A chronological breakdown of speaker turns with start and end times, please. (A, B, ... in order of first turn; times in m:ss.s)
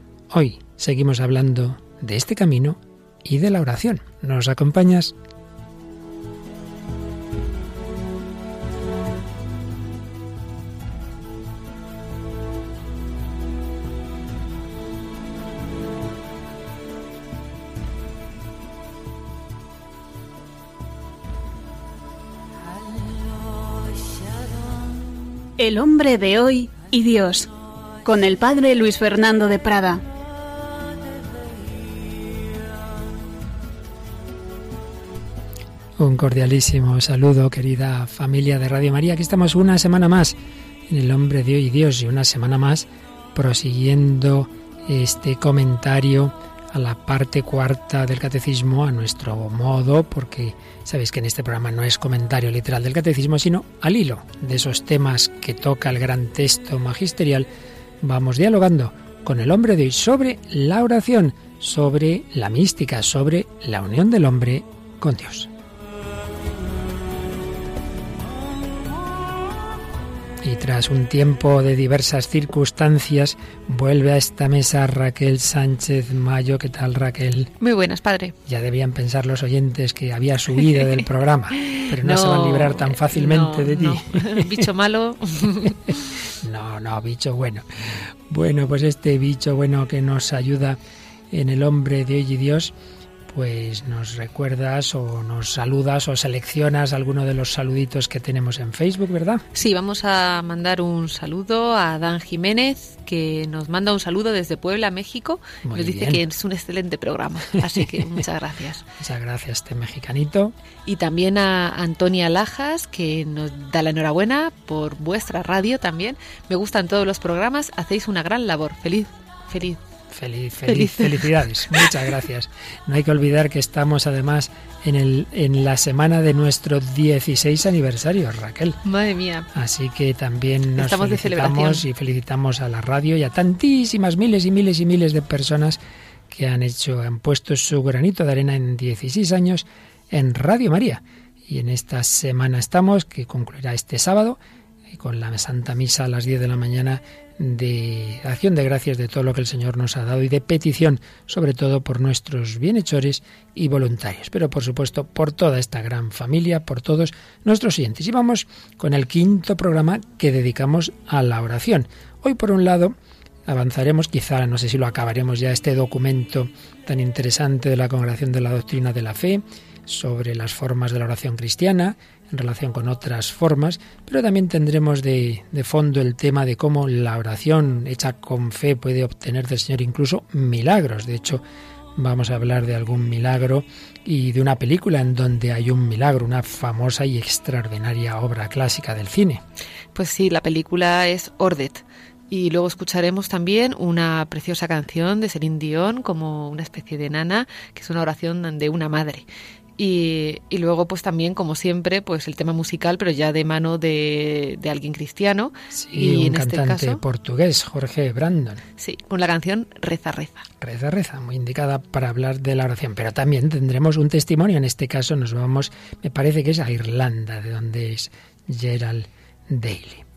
0:00.3-0:05.1 A
0:25.6-0:27.5 B
0:28.0-0:30.0 B
0:36.0-0:40.4 A
0:40.9-0:57.5 A
0:58.0-1:05.5 A
1:10.4-1:17.5 A
1:17.6-1:18.4 C
1:18.5-1:24.5 A
1:21.6-1:26.0 C
1:26.4-1:30.8 A
1:31.3-1:32.7 A
1:33.3-1:39.4 A
1:39.5-1:48.9 C
1:45.6-1:46.2 A
1:49.0-1:50.6 A
1:50.9-1:59.8 C
2:00.1-2:08.8 A
2:00.6-2:02.0 C
2:08.8-2:09.5 C
2:09.5-2:24.4 A
2:10.8-2:11.8 C
2:24.9-2:43.0 A
2:43.5-3:01.4 A
3:02.0-3:09.4 A
3:10.0-3:19.3 C
3:19.8-3:27.0 C
3:25.7-3:28.6 A
3:28.8-3:30.5 C
3:30.6-3:40.0 A